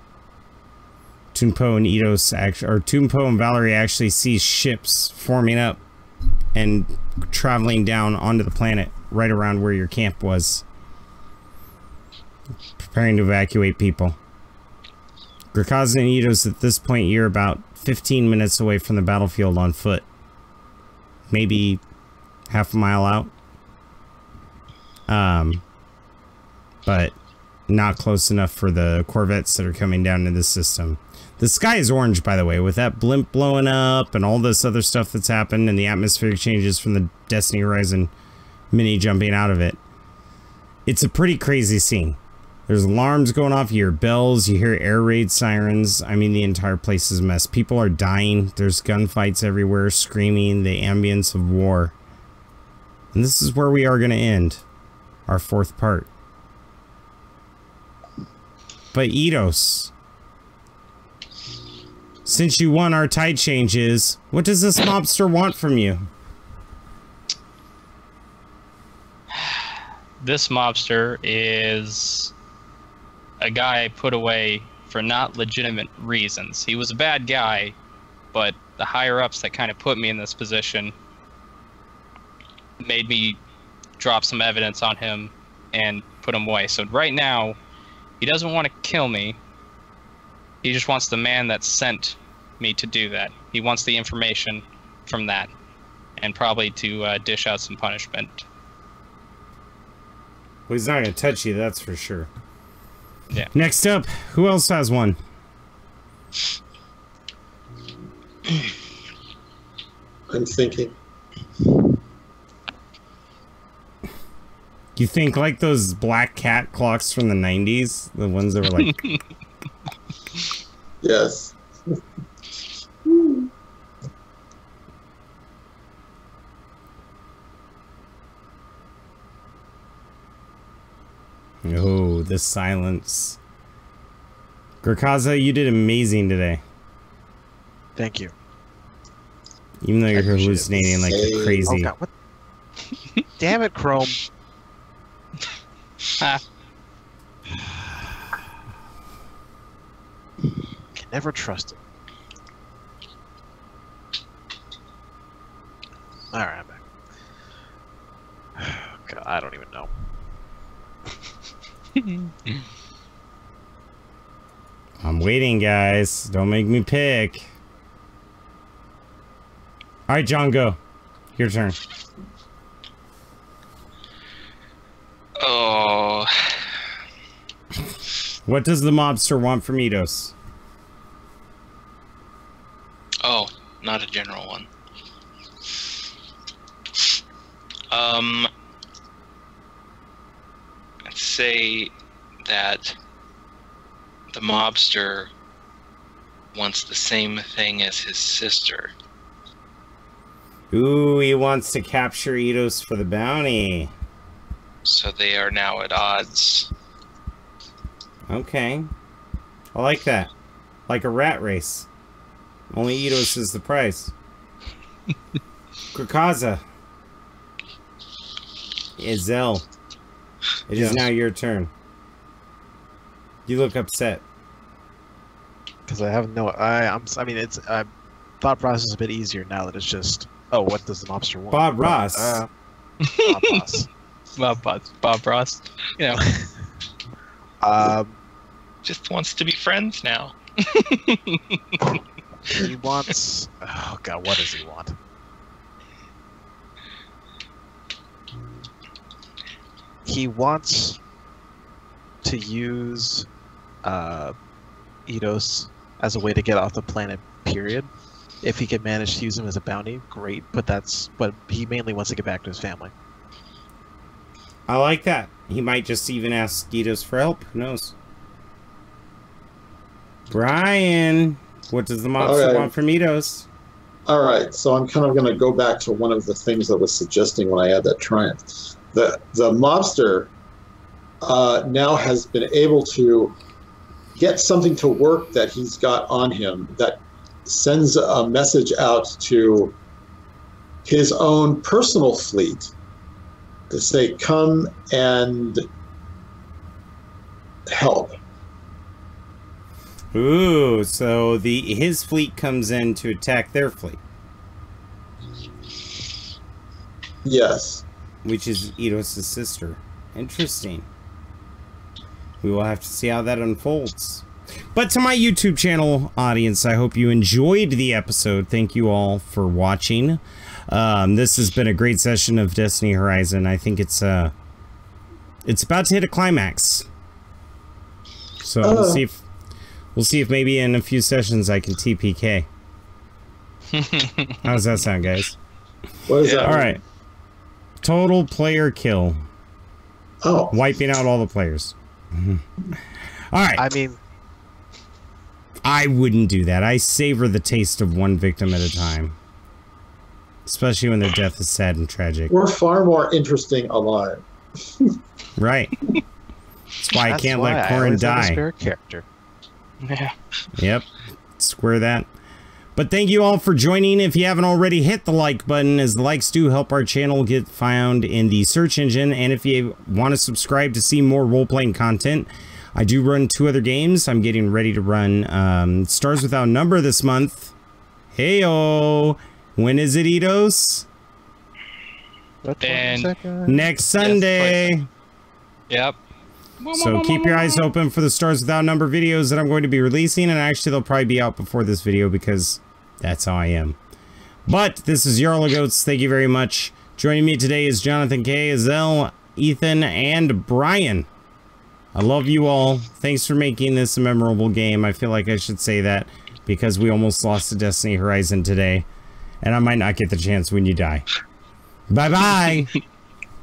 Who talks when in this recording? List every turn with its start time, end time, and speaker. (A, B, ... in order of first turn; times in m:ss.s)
0:01.3-0:05.8 A
0:06.6-0:10.6 A
0:12.8-0:14.2 A
0:15.5-0:20.0 A
0:21.3-0:21.8 A
0:22.5-0:23.3 A
0:25.1-0:25.6 A
0:26.9-0:27.2 A
0:27.7-0:38.1 A
0:38.7-0:39.8 A
0:40.9-0:51.9 A
0:53.1-0:54.6 A
0:55.3-0:56.1 A
0:58.9-0:59.9 A
1:02.2-1:06.1 A
1:09.4-1:09.7 B
1:10.2-1:12.3 B
1:13.4-1:17.8 B
1:18.3-1:20.9 B
1:22.8-1:23.4 B
1:24.0-1:27.6 B
1:28.2-1:29.4 B
1:30.6-1:35.5 B
1:36.2-1:38.5 B
1:40.7-1:42.3 A
1:43.5-1:45.2 A
1:50.3-1:50.9 C
1:55.0-1:59.0 A
1:58.8-1:59.2 B
2:01.0-2:01.6 C
2:03.1-2:03.5 C
2:11.6-2:13.4 A
2:14.8-2:16.6 A
2:18.0-2:18.3 D
2:19.8-2:21.9 A
2:20.1-2:20.7 D
2:20.8-2:21.8 C
2:21.6-2:22.1 D
2:23.4-2:24.2 D
2:27.6-2:27.9 D
2:31.0-2:31.8 D
2:36.3-2:36.8 D
2:38.6-2:39.9 D
2:42.0-2:42.6 B
2:45.0-2:47.5 A
2:50.1-2:50.8 A
2:51.4-2:51.8 A
2:55.4-2:56.6 E
2:58.4-3:00.3 A
3:03.2-3:04.7 E
3:07.9-3:08.5 E
3:11.0-3:11.9 E
3:12.4-3:13.0 E
3:14.3-3:15.3 E
3:16.5-3:18.9 E
3:20.7-3:23.9 A
3:24.8-3:26.7 E
3:28.3-3:28.9 A
3:29.7-3:30.3 A
3:30.9-3:31.9 A
3:32.7-3:34.1 A
3:35.9-3:36.6 A
3:39.0-3:39.7 A
3:40.7-3:41.7 A
3:40.7-3:41.1 D
3:43.5-3:44.2 A
3:45.9-3:47.9 D
3:48.4-3:52.5 D
3:51.5-3:52.4 A
3:53.0-3:53.6 B
3:53.2-3:53.9 D
3:54.4-3:56.2 B
3:56.1-3:56.5 D
3:57.6-3:58.2 D
3:58.8-4:00.4 E
4:00.7-4:01.8 B
4:02.5-4:05.0 D
4:10.0-4:11.0 D
4:12.2-4:13.3 D
4:13.8-4:14.4 D
4:15.1-4:17.9 D
4:18.4-4:22.9 D
4:24.7-4:27.9 A
4:30.3-4:33.5 A
4:32.2-4:32.7 C
4:34.1-4:40.3 C
4:41.2-4:43.4 C
4:44.2-4:49.8 C
4:50.8-4:52.7 C
4:53.7-4:55.6 C
4:57.7-4:58.1 C
5:00.1-5:04.0 A
5:07.2-5:07.8 C
5:08.2-5:10.9 A
5:12.4-5:24.3 A
5:25.5-5:26.9 A
5:28.4-5:29.2 A
5:28.6-5:29.0 C
5:30.0-5:32.5 A
5:33.7-5:34.4 B
5:34.4-5:35.4 A
5:36.1-5:36.8 C
5:36.4-5:36.8 A
5:37.8-5:39.2 A
5:40.2-5:40.6 C
5:40.5-5:43.6 A
5:43.6-5:44.0 D
5:45.6-5:49.2 A
5:50.5-5:52.3 A
5:52.3-5:54.2 C
5:55.4-5:55.8 A
5:56.8-5:58.4 A
5:57.0-5:59.0 D
5:59.8-6:00.2 B
6:00.5-6:02.1 A
6:02.8-6:17.5 A
6:18.1-6:20.9 A
6:22.4-6:23.7 D
6:22.6-6:23.1 B
6:23.5-6:24.9 A
6:24.0-6:24.7 B
6:25.7-6:26.0 B
6:26.6-6:27.6 B
6:26.7-6:33.8 A
6:34.5-6:41.1 A
6:42.0-6:48.9 A
6:49.4-6:51.1 A
6:51.9-6:52.7 A